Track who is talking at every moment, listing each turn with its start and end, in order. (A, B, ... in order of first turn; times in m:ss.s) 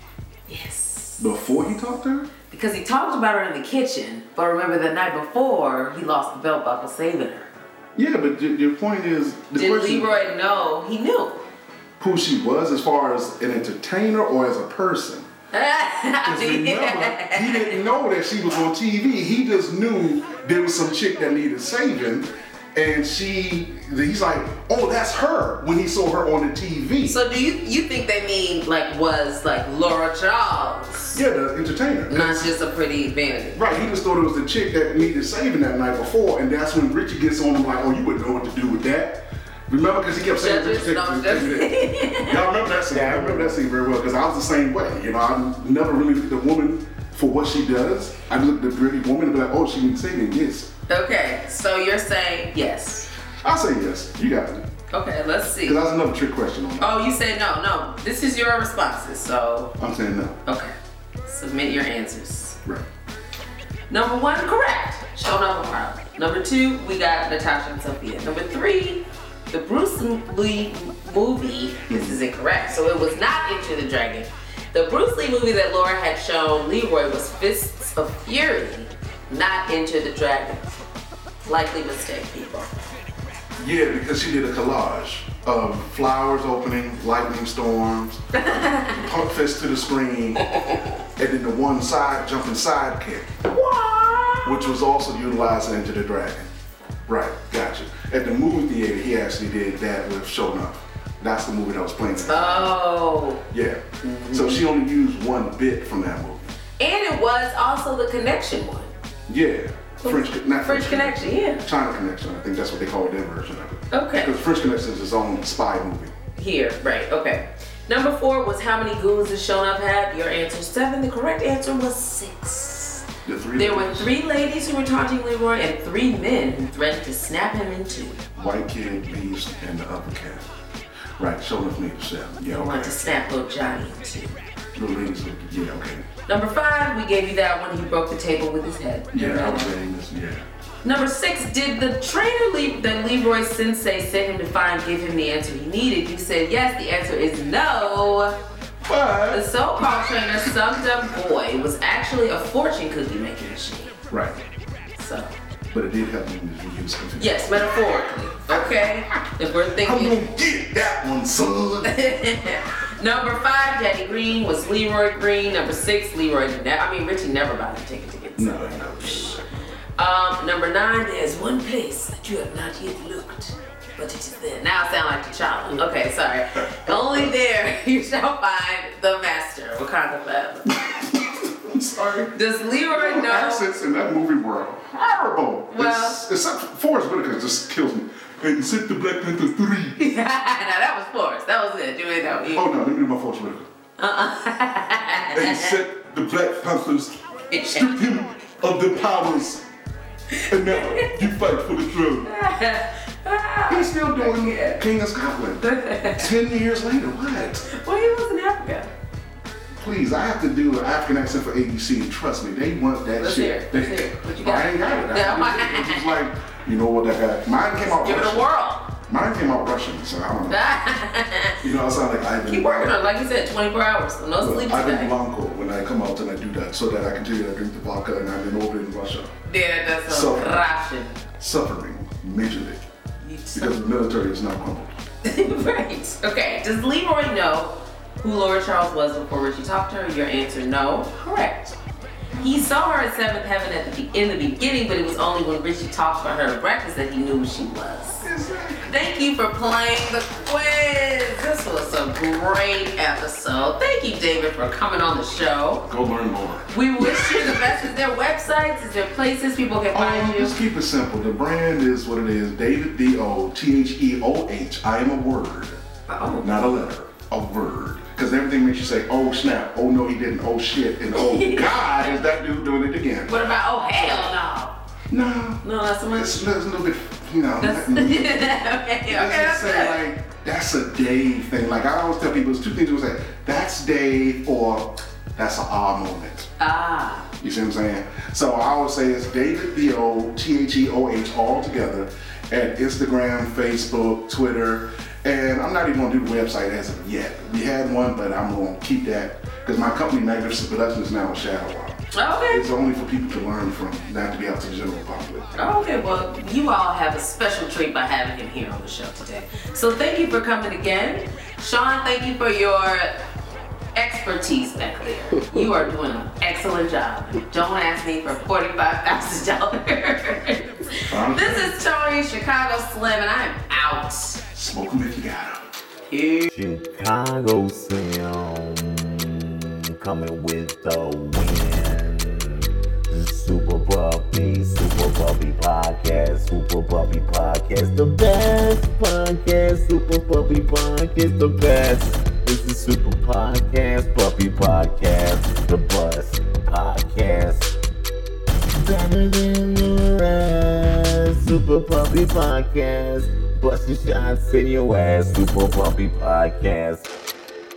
0:00.5-0:01.4 A
0:01.2-0:02.3 B
0:02.5-0:07.5 A
0:08.0-0:10.2 B
0:09.6-0:11.4 A
0:12.0-0:15.3 B
0:15.5-0:17.8 A
0:16.2-0:27.2 B
0:27.0-0:31.2 A
0:31.1-0:32.5 B
0:32.1-0:33.6 A
0:33.5-0:50.7 B
0:40.3-0:42.4 A
0:42.9-0:43.5 C
0:50.9-0:53.1 A
0:53.4-0:54.7 B
0:54.9-0:55.8 A
0:55.6-0:57.0 B
0:56.8-0:59.8 A
0:59.8-1:00.4 B
1:00.4-1:00.7 A
1:01.2-1:02.6 A
1:03.9-1:20.6 A
1:11.9-1:12.2 B
1:21.5-1:22.7 A
1:23.6-1:30.5 B
1:28.3-1:29.0 A
1:30.5-1:30.8 A
1:31.2-1:33.4 B
1:33.5-1:34.7 A
1:34.4-1:36.5 B
1:37.1-1:42.7 B
1:42.2-1:43.4 A
1:43.5-1:46.5 B
1:44.0-1:44.6 A
1:46.8-1:48.9 A
1:49.3-1:56.1 B
1:50.0-1:51.6 A
1:53.9-1:54.4 A
1:56.4-2:03.0 A
2:03.2-2:04.1 B
2:03.6-2:08.2 A
2:08.4-2:10.5 B
2:11.2-2:12.9 B
2:12.5-2:14.4 A
2:14.8-2:16.1 B
2:16.3-2:19.8 A
2:19.1-2:20.4 B
2:20.8-2:28.4 A
2:28.8-2:30.7 B
2:29.3-2:34.0 A
2:34.1-2:34.4 B
2:35.0-2:35.3 A
2:35.7-2:42.0 B
2:37.2-2:40.2 A
2:41.8-2:49.4 A
2:48.4-2:49.5 B
2:50.0-3:00.8 A
2:56.8-2:57.3 B
3:00.9-3:02.4 B
3:02.3-3:03.7 A
3:02.9-3:10.0 B
3:05.7-3:06.2 A
3:10.0-3:12.7 A
3:12.5-3:13.7 B
3:14.0-3:15.8 A
3:15.3-3:19.6 B
3:17.5-3:17.9 A
3:20.3-3:21.2 A
3:20.5-3:22.3 B
3:22.2-3:24.8 A
3:23.7-3:25.6 B
3:25.6-3:26.3 A
3:26.2-3:27.7 B
3:27.7-3:28.9 A
3:29.8-3:38.5 B
3:33.2-3:36.1 A
3:38.0-3:38.9 A
3:39.1-3:40.6 B
3:40.5-3:41.6 A
3:41.6-3:43.0 B
3:42.5-3:45.1 A
3:44.4-3:49.3 B
3:49.5-3:51.2 A
3:50.1-3:50.6 B
3:51.4-3:52.8 B
3:53.2-3:53.7 A
3:53.5-3:55.0 B
3:55.2-4:01.8 A
4:02.4-4:08.3 A
4:08.2-4:08.9 B
4:08.9-4:15.9 A
4:15.9-4:17.8 B
4:16.7-4:20.6 A
4:19.9-4:25.8 B
4:26.1-4:26.5 A
4:26.4-4:33.4 B
4:31.1-4:32.2 A
4:33.3-4:34.8 A
4:35.1-4:46.5 B
4:35.6-4:36.5 A
4:37.6-4:40.0 A
4:46.6-4:47.3 A
4:47.4-5:05.8 B
5:02.1-5:02.6 A
5:05.6-5:13.2 A
5:14.0-5:24.4 A
5:21.1-5:21.8 B
5:24.5-5:25.7 B
5:26.1-5:26.5 A
5:26.5-5:47.7 C
5:48.7-5:57.1 C